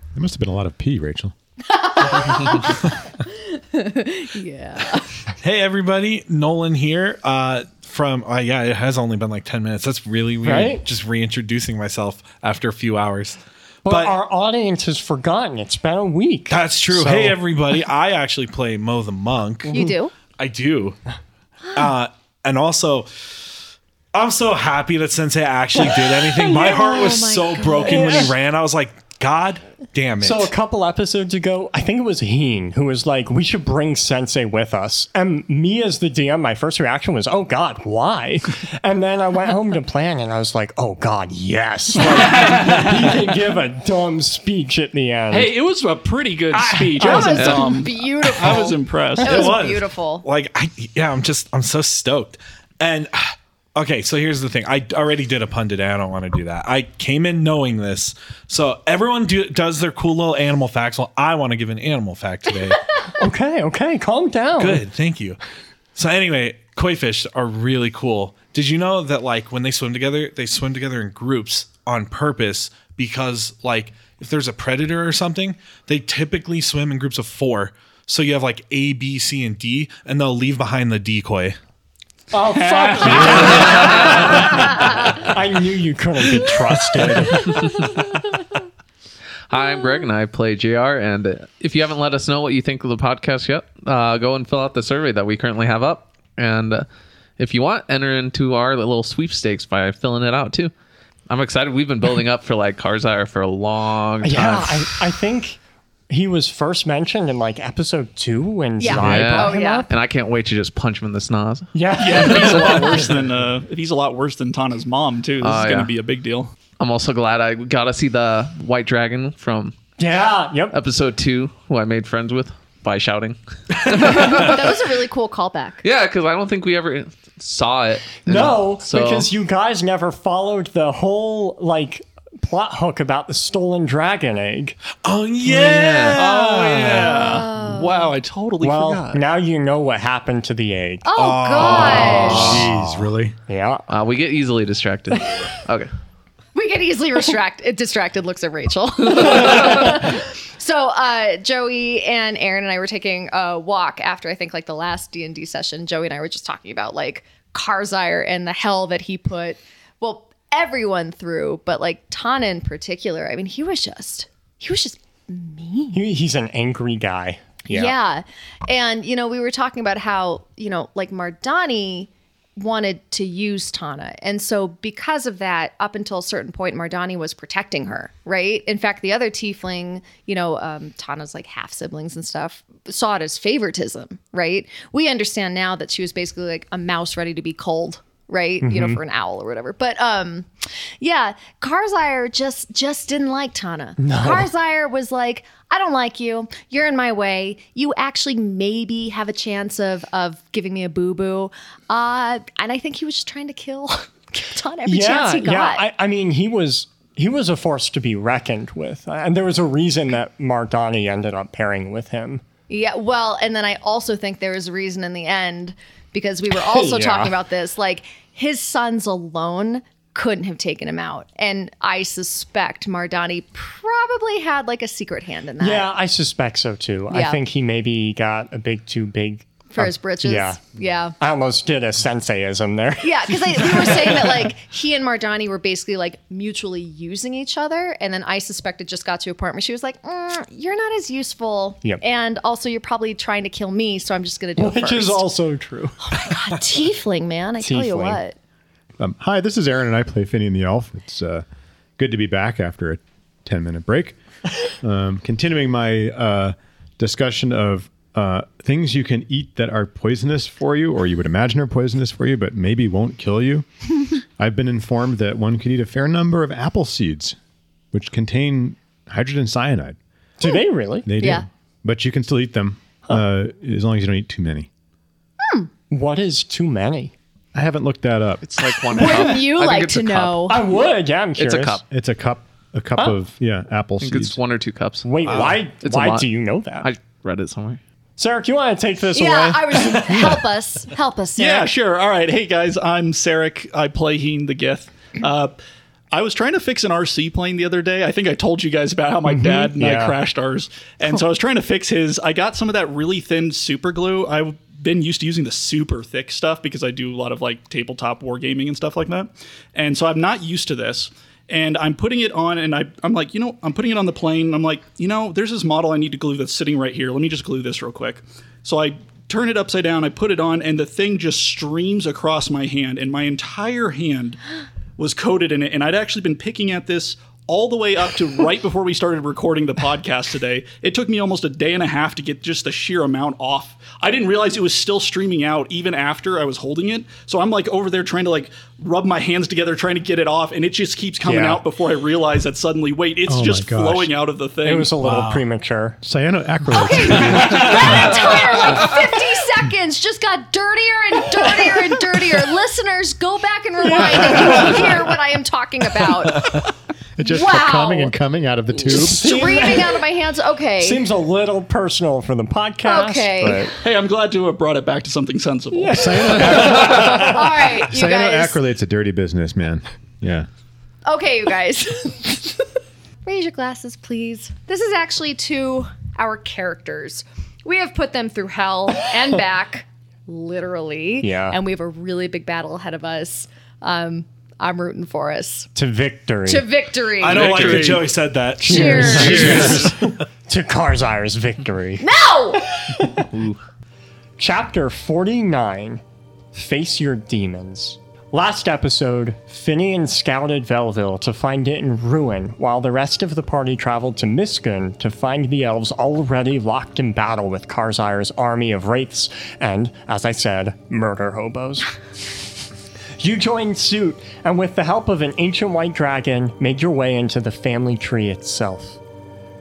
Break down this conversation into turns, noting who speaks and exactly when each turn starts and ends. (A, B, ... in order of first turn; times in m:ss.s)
0:00.2-0:01.3 A
0:01.7-0:05.2 B
0:05.4-0:14.1 C
0:10.4-0:10.8 D
0:13.8-0:17.4 D
0:16.5-0:19.8 C
0:19.7-0:20.0 D
0:19.7-0:20.1 B
0:20.4-0:21.0 C
0:21.7-0:23.1 C
0:24.1-0:30.5 C
0:25.8-0:28.3 B
0:27.8-0:28.3 D
0:30.2-0:45.6 D
0:42.1-0:42.9 E
0:45.3-0:49.6 E
0:46.5-0:47.6 D
0:47.0-0:50.2 B
0:48.4-0:48.6 C
0:49.2-1:02.9 C
1:03.2-1:04.8 D
1:04.6-1:05.4 C
1:06.0-1:21.6 C
1:22.3-1:27.7 D
1:22.4-1:24.9 E
1:29.5-1:36.9 F
1:37.4-1:40.7 F
1:41.3-1:44.9 F
1:44.2-1:49.9 D
1:48.8-1:49.9 B
1:49.0-1:52.8 F
1:51.7-1:53.2 D
1:52.0-1:56.5 E
1:55.4-1:55.9 F
1:56.8-1:59.8 F
2:00.0-2:00.8 D
2:00.7-2:04.6 F
2:03.9-2:05.8 B
2:05.8-2:09.3 F
2:08.3-2:14.8 D
2:15.0-2:17.4 C
2:15.5-2:16.2 F
2:15.6-2:19.2 E
2:17.0-2:18.1 B
2:18.6-2:21.1 D
2:21.0-2:22.7 B
2:21.2-2:22.6 C
2:21.8-2:23.4 A
2:22.0-2:22.7 F
2:23.5-2:23.9 D
2:23.9-2:25.9 F
2:26.5-2:46.0 B
2:45.9-2:48.0 D
2:47.7-3:10.5 B
3:08.6-3:09.0 D
3:11.0-3:25.8 B
3:14.0-3:14.5 D
3:24.9-3:32.4 D
3:32.7-3:45.8 B
3:36.5-3:37.4 D
3:45.6-3:50.6 D
3:47.1-3:47.4 B
3:49.7-3:51.2 B
3:51.2-3:54.5 D
3:53.0-4:05.2 B
4:04.6-4:06.0 D
4:06.0-4:08.4 B
4:07.6-4:08.2 D
4:09.0-4:11.4 A
4:12.0-4:14.2 A
4:14.8-4:23.7 A
4:24.4-4:27.4 A
4:27.9-4:30.0 A
4:30.4-4:31.2 D
4:31.1-4:34.7 A
4:31.2-4:31.4 B
4:35.9-4:37.1 D
4:37.5-4:38.4 A
4:38.4-4:40.6 F
4:38.9-4:40.6 B
4:40.5-4:41.8 D
4:41.4-4:41.8 F
4:41.9-4:44.4 A
4:44.0-4:46.3 F
4:45.0-4:46.9 D
4:45.3-4:45.5 C
4:46.8-4:47.8 F
4:48.2-4:50.4 D
4:49.1-4:51.7 B
4:51.4-4:55.6 E
4:56.1-5:24.4 E
4:59.3-5:00.2 D
5:25.0-5:45.0 E
5:41.2-5:41.6 D
5:43.3-5:44.1 A
5:44.6-5:46.0 D
5:46.0-5:48.6 A
5:46.7-5:56.7 B
5:47.5-5:48.1 E
5:57.2-5:59.6 A
5:57.2-5:58.2 B
5:58.8-6:01.0 B
5:58.9-6:00.0 D
6:00.8-6:03.7 D
6:02.8-6:03.7 B
6:03.7-6:07.1 E
6:05.7-6:07.1 D
6:05.9-6:10.5 A
6:07.0-6:08.6 B
6:11.1-6:12.6 B
6:13.2-6:25.7 B
6:21.2-6:21.6 D
6:25.8-6:26.7 D
6:26.5-6:27.9 B
6:27.2-6:30.1 C
6:27.3-6:28.0 E
6:28.6-6:32.2 D
6:28.6-6:29.9 B
6:29.2-6:29.7 F
6:32.0-6:32.8 B
6:33.2-6:33.6 F
6:34.4-6:36.0 D
6:36.5-6:51.9 D
6:53.2-6:59.0 D